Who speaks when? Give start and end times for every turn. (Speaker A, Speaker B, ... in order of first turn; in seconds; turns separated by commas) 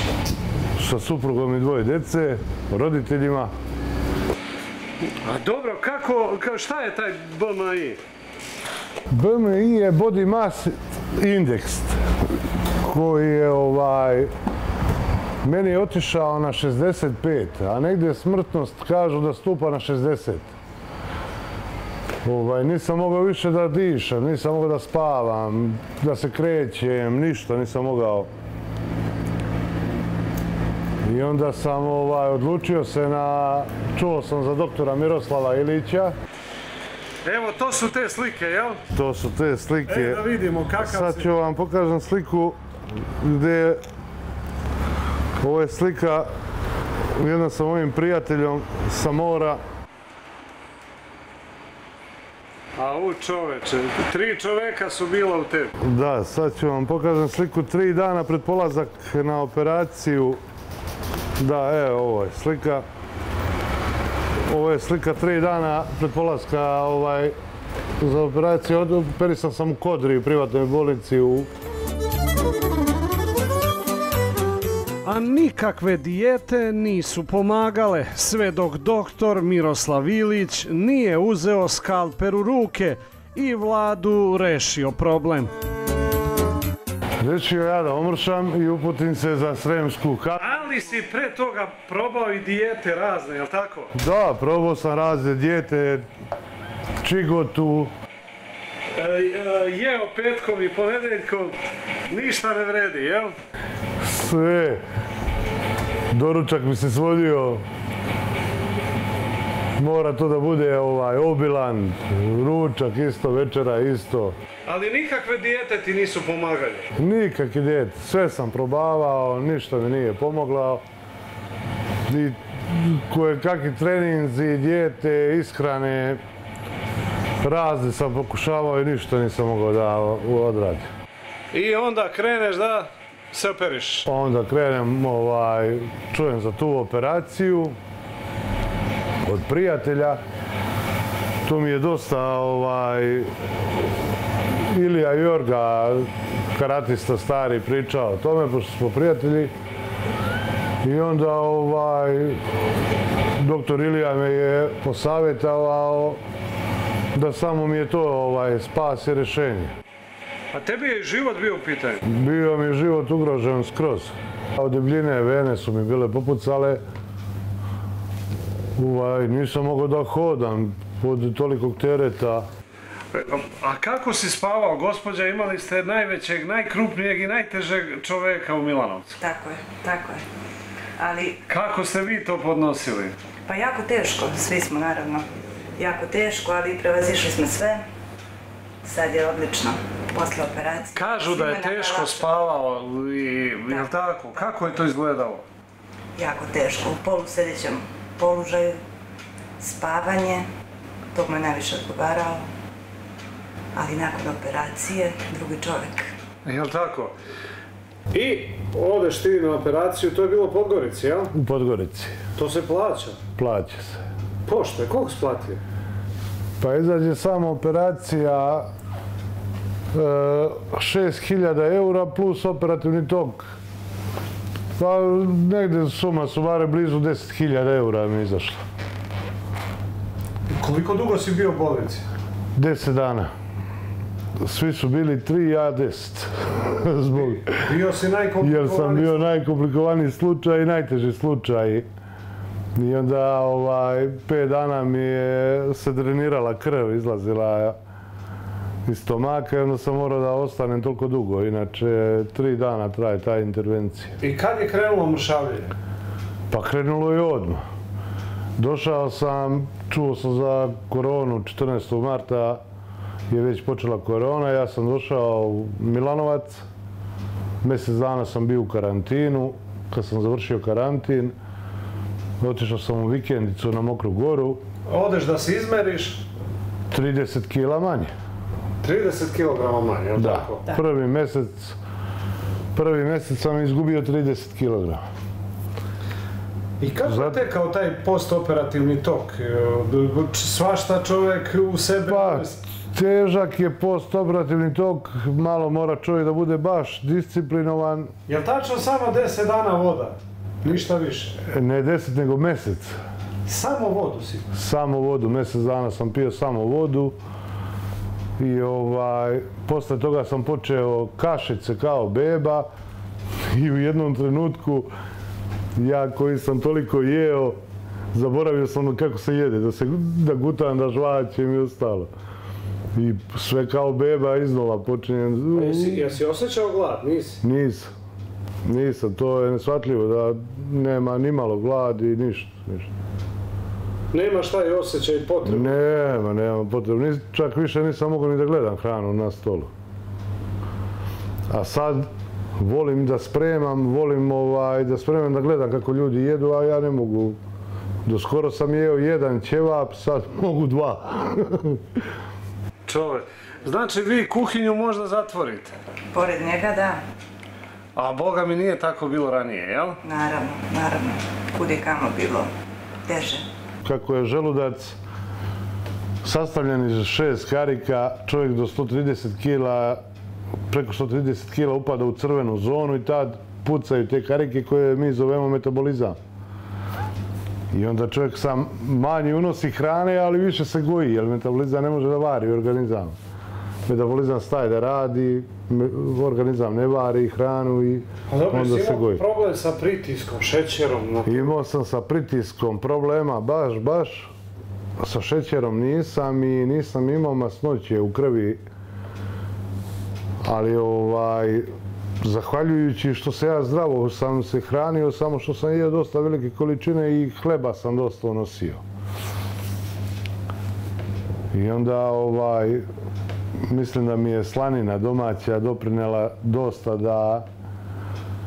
Speaker A: 0.8-3.5, Speaker B: 5.2-8.0, Speaker A: 9.1-12.0, Speaker A: 12.8-14.3, Speaker A: 15.4-20.5, Speaker A: 22.2-28.3, Speaker A: 31.0-36.1, Speaker B: 37.2-38.8, Speaker A: 38.9-40.2, Speaker B: 39.9-41.3, Speaker A: 40.8-42.6, Speaker A: 43.2-43.8, Speaker A: 45.4-46.3, Speaker A: 47.1-49.6, Speaker B: 52.8-55.7, Speaker A: 55.8-60.4, Speaker A: 61.4-62.8, Speaker A: 64.5-67.3, Speaker A: 68.0-71.5, Speaker B: 75.0-85.5, Speaker A: 87.2-90.5, Speaker B: 90.4-93.9, Speaker A: 93.9-96.0, Speaker A: 97.0-97.9, Speaker B: 98.9-101.5, Speaker B: 102.1-103.3, Speaker A: 104.0-104.8, Speaker A: 106.1-107.6, Speaker A: 109.8-114.3, Speaker B: 114.7-116.9, Speaker A: 117.0-120.8, Speaker A: 122.1-126.2, Speaker A: 127.4-130.9, Speaker B: 131.5-134.1, Speaker A: 134.1-137.8, Speaker A: 139.2-140.2, Speaker A: 141.4-143.3, Speaker A: 144.5-149.5, Speaker A: 150.8-152.4, Speaker A: 153.4-156.2, Speaker A: 157.1-159.7, Speaker B: 160.5-162.0, Speaker A: 162.0-166.8, Speaker A: 168.8-172.4, Speaker B: 173.1-179.1, Speaker C: 179.2-180.2, Speaker C: 181.0-181.4, Speaker B: 181.5-183.2, Speaker C: 183.5-185.2, Speaker C: 185.8-187.8, Speaker C: 188.8-192.2, Speaker B: 190.9-195.4, Speaker C: 196.2-198.8, Speaker C: 199.6-200.4, Speaker C: 201.1-202.4, Speaker C: 203.7-206.1, Speaker B: 206.4-207.1, Speaker B: 208.1-211.3, Speaker A: 211.3-212.1, Speaker B: 212.3-213.2, Speaker A: 213.4-214.0, Speaker B: 214.4-215.6, Speaker A: 216.6-218.7, Speaker A: 219.9-223.5, Speaker A: 224.8-228.6, Speaker B: 230.5-232.0, Speaker A: 232.6-233.3, Speaker A: 234.4-237.6, Speaker B: 237.2-239.2, Speaker A: 238.4-241.8, Speaker A: 242.7-247.8, Speaker A: 248.8-254.2, Speaker B: 254.2-255.7, Speaker A: 256.5-257.6, Speaker A: 258.6-262.6, Speaker A: 263.3-266.6, Speaker A: 267.6-271.3, Speaker A: 272.4-274.6, Speaker B: 274.9-276.2, Speaker A: 276.9-278.1, Speaker B: 278.8-280.7, Speaker A: 280.1-281.8, Speaker A: 282.7-285.0, Speaker B: 286.8-292.6, Speaker A: 287.0-287.4, Speaker A: 292.1-298.1, Speaker B: 298.3-301.4, Speaker A: 301.4-302.9, Speaker B: 303.4-304.4, Speaker A: 304.5-307.1, Speaker A: 308.4-312.7, Speaker A: 313.4-314.9, Speaker A: 315.8-317.6, Speaker A: 318.1-322.1, Speaker A: 322.9-326.0, Speaker B: 325.5-327.4, Speaker A: 327.4-327.9, Speaker A: 328.6-332.9, Speaker B: 334.1-335.9, Speaker A: 335.4-339.7, Speaker A: 341.5-347.4, Speaker A: 348.1-351.8, Speaker B: 352.9-355.8, Speaker C: 356.1-357.0, Speaker B: 357.9-360.0, Speaker C: 360.0-362.5, Speaker C: 363.1-363.4, Speaker A: 363.8-365.0, Speaker A: 366.2-370.0, Speaker A: 370.7-376.2, Speaker A: 377.7-383.1, Speaker A: 383.9-389.2, Speaker B: 388.3-391.5, Speaker A: 391.2-394.3, Speaker A: 395.0-398.6, Speaker A: 400.4-401.7, Speaker A: 402.2-408.8, Speaker A: 411.5-412.8, Speaker A: 413.7-417.5